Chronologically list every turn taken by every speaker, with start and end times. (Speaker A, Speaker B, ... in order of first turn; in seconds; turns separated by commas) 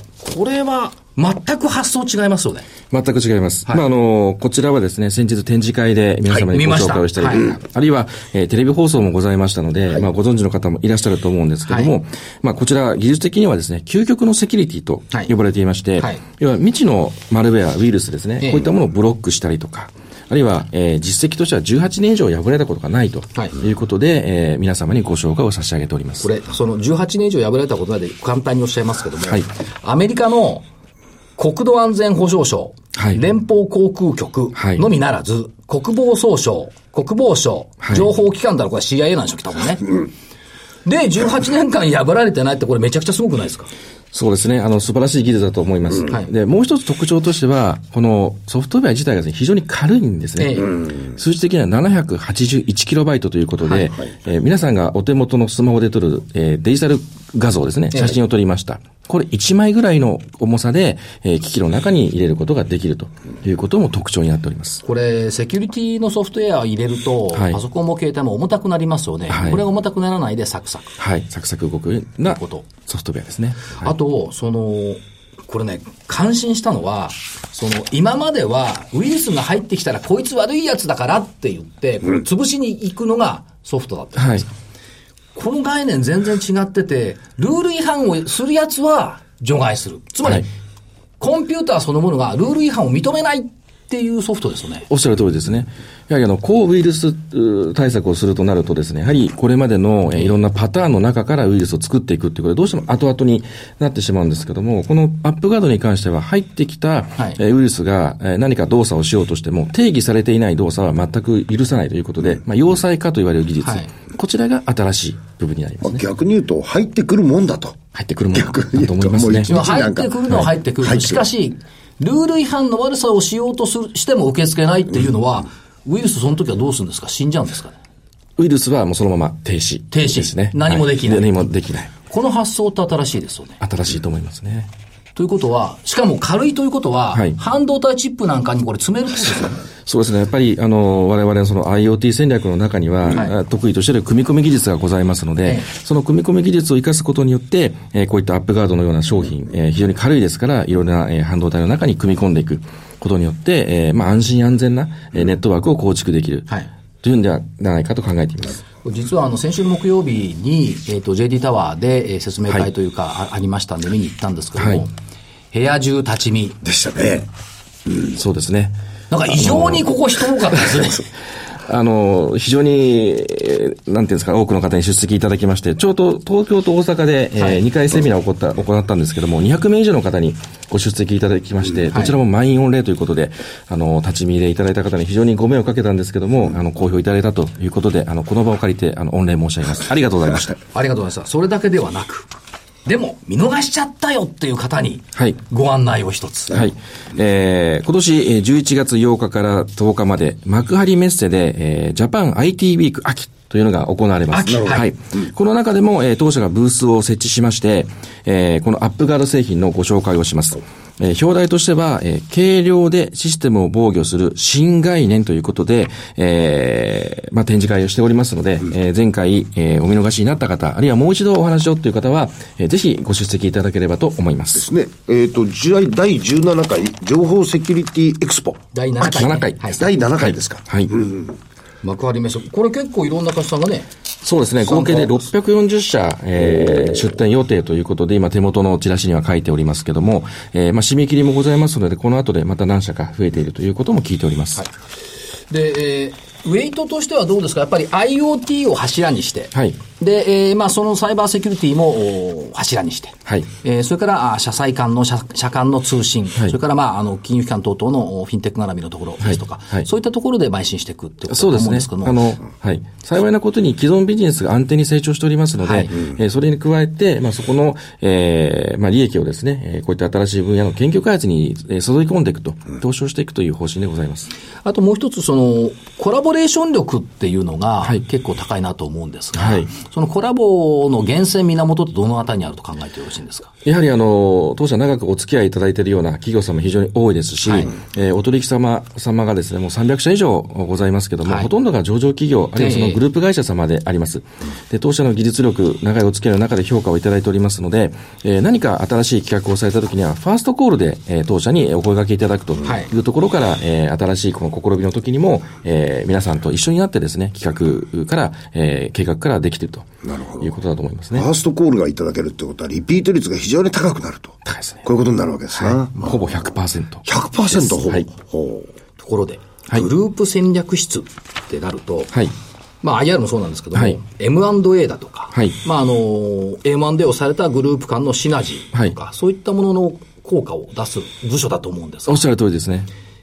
Speaker A: 0.2-2.7, Speaker B: 2.9-26.3, Speaker A: 6.4-7.5, Speaker A: 11.7-11.9, Speaker A: 18.4-18.7, Speaker A: 26.2-30.6, Speaker A: 31.4-40.0, Speaker B: 33.0-33.2, Speaker B: 34.5-34.8, Speaker B: 37.8-38.1, Speaker A: 40.8-43.7, Speaker B: 44.1-64.8, Speaker A: 50.4-50.7, Speaker A: 64.8-70.9, Speaker B: 69.3-69.6, Speaker B: 71.0-73.9, Speaker A: 72.3-72.7, Speaker A: 73.8-84.5, Speaker B: 84.2-84.4, Speaker A: 85.3-90.5, Speaker A: 91.2-94.9, Speaker B: 94.9-116.0, Speaker A: 113.6-113.9, Speaker C: 115.8-117.8, Speaker B: 117.9-119.5, Speaker C: 118.3-121.2, Speaker A: 119.5-127.8, Speaker B: 128.4-131.9, Speaker A: 129.9-131.3, Speaker A: 132.1-133.6, Speaker B: 133.6-134.7, Speaker A: 135.2-139.6, Speaker B: 139.8-156.5, Speaker B: 157.0-158.6, Speaker A: 158.8-164.9, Speaker B: 164.6-164.8, Speaker A: 165.5-166.6, Speaker C: 166.6-167.3, Speaker B: 168.1-168.8, Speaker A: 169.1-171.1, Speaker B: 169.3-169.8, Speaker B: 171.6-190.6, Speaker A: 190.7-192.3, Speaker A: 192.8-196.6, Speaker B: 196.5-224.6, Speaker A: 204.3-204.9, Speaker C: 224.5-228.6, Speaker A: 228.7-229.8, Speaker B: 229.0-230.9, Speaker C: 229.8-231.3, Speaker A: 231.8-233.9, Speaker B: 234.2-244.6, Speaker A: 234.6-235.2, Speaker A: 245.5-262.2, Speaker B: 259.2-259.9, Speaker B: 261.3-274.3, Speaker A: 265.6-265.9, Speaker A: 274.6-283.5, Speaker B: 279.4-279.7, Speaker B: 283.6-309.9, Speaker A: 287.4-287.7, Speaker A: 292.6-293.0, Speaker C: 310.0-310.5, Speaker B: 310.4-311.3, Speaker C: 311.1-316.1, Speaker B: 314.4-314.8, Speaker B: 315.6-318.1, Speaker C: 317.0-318.7, Speaker A: 319.0-322.1, Speaker A: 322.8-332.2, Speaker B: 332.1-332.9